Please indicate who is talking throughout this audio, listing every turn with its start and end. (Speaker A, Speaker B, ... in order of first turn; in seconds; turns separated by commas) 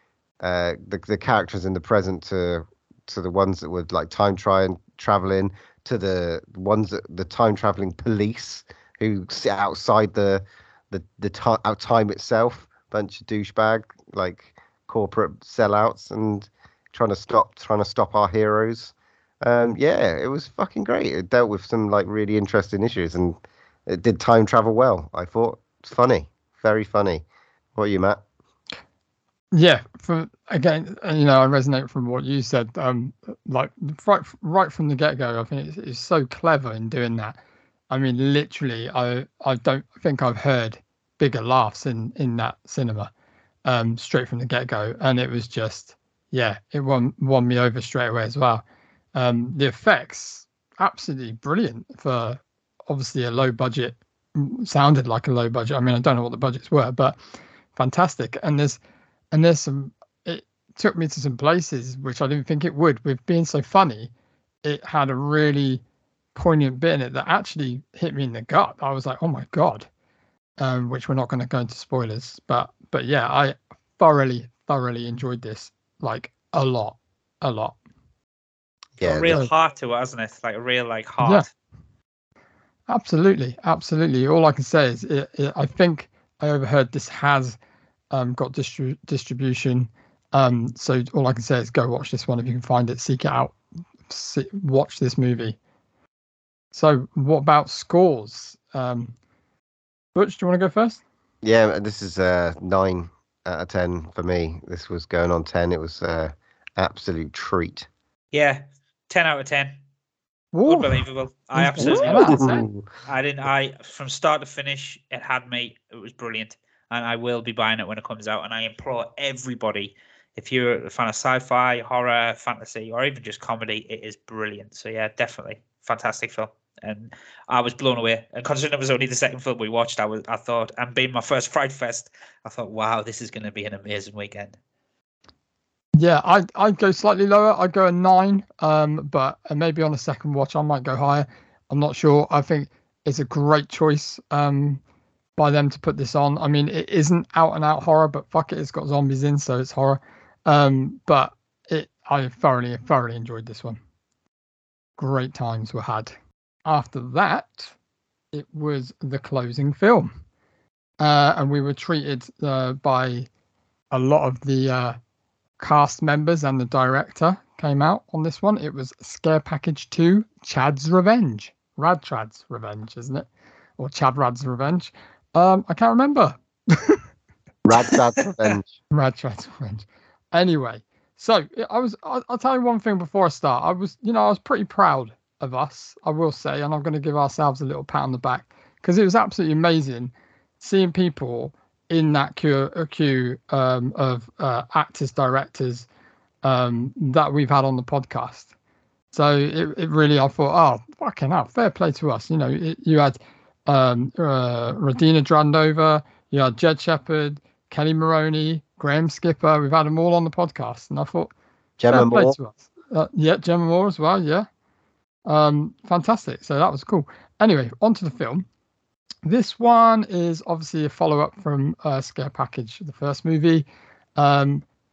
Speaker A: 0.4-27.2, Speaker A: 27.8-28.2, Speaker B: 29.5-37.4, Speaker B: 37.9-43.1, Speaker B: 43.6-48.6, Speaker B: 49.1-57.2, Speaker B: 57.8-58.8, Speaker B: 59.3-64.1, Speaker B: 64.6-65.8, Speaker B: 66.3-69.9, Speaker B: 70.6-77.8, Speaker A: 79.0-79.4, Speaker C: 79.0-81.5, Speaker B: 82.9-87.6, Speaker B: 88.1-93.5, Speaker B: 94.1-95.6, Speaker B: 96.7-99.1, Speaker B: 100.1-101.0, Speaker A: 101.4-107.9, Speaker C: 108.3-109.8, Speaker B: 110.5-112.6, Speaker C: 110.7-112.5, Speaker A: 111.8-112.8, Speaker C: 113.0-134.6, Speaker B: 135.9-144.8, Speaker B: 145.4-153.8, Speaker B: 155.0-156.1, Speaker B: 156.7-157.7, Speaker B: 158.3-160.1, Speaker B: 161.0-163.3, Speaker B: 163.9-165.0, Speaker B: 165.6-173.3, Speaker B: 173.8-177.0, Speaker A: 177.7-178.7, Speaker B: 178.9-195.8, Speaker B: 196.4-198.5, Speaker B: 199.1-211.3, Speaker A: 211.8-212.3, Speaker B: 211.9-214.5, Speaker B: 215.3-218.4, Speaker B: 219.2-223.7, Speaker B: 224.2-224.6